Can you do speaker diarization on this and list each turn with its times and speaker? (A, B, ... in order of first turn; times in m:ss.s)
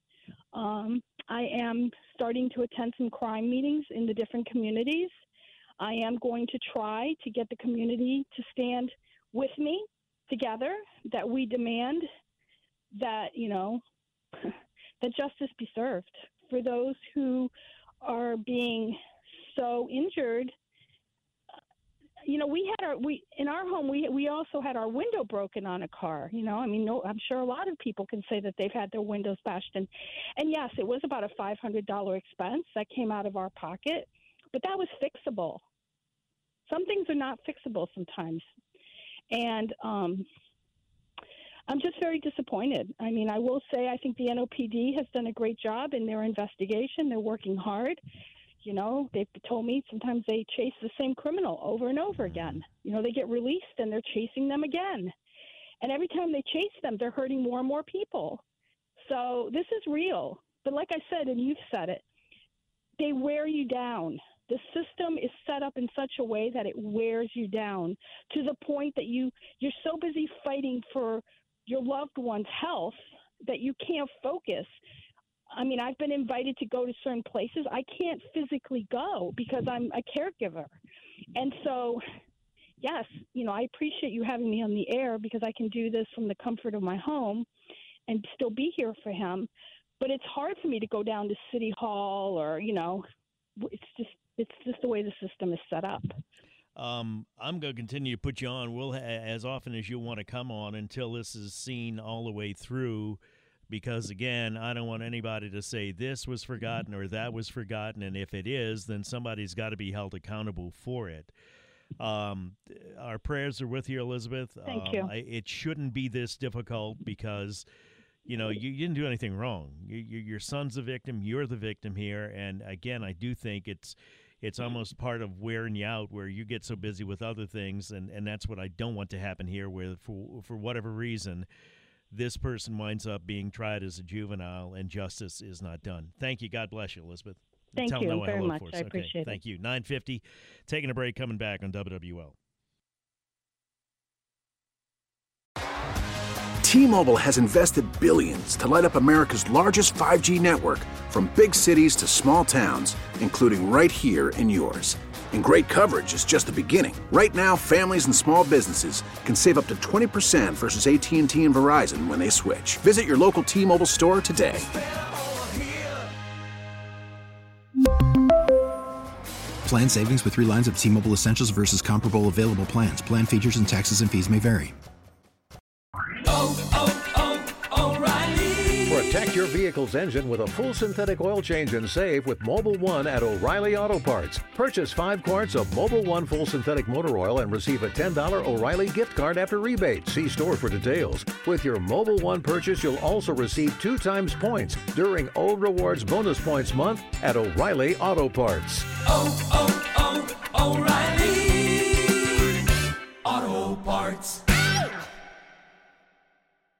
0:00.5-0:05.1 A
0:05.8-0:12.0 A
0:12.9-0:13.8 A
0:14.4-0:17.5 A
0:18.0-0:20.5 A
0:22.2-0:35.6 A
0:36.7-0:38.4 A
0:39.3-0:40.2 A
0:41.7-0:48.0 A
0:48.6-0:55.1 A
0:55.8-0:58.4 A
0:59.0-1:02.0 A
1:03.0-1:14.7 A
1:15.5-1:20.7 A
1:21.4-1:22.0 A
1:22.8-1:27.5 A
1:28.1-1:29.5 A
1:30.0-1:33.0 A
1:33.6-1:36.2 A
1:36.8-1:43.2 B
1:43.7-1:51.3 B
1:52.0-1:57.6 B
1:54.7-1:55.1 A
1:58.2-2:11.5 B
2:12.1-2:22.4 B
2:17.8-2:19.4 A
2:26.6-2:44.8 C
2:49.6-2:54.7 D
2:58.8-3:19.0 E
3:20.7-3:21.7 F
3:23.3-3:24.4 F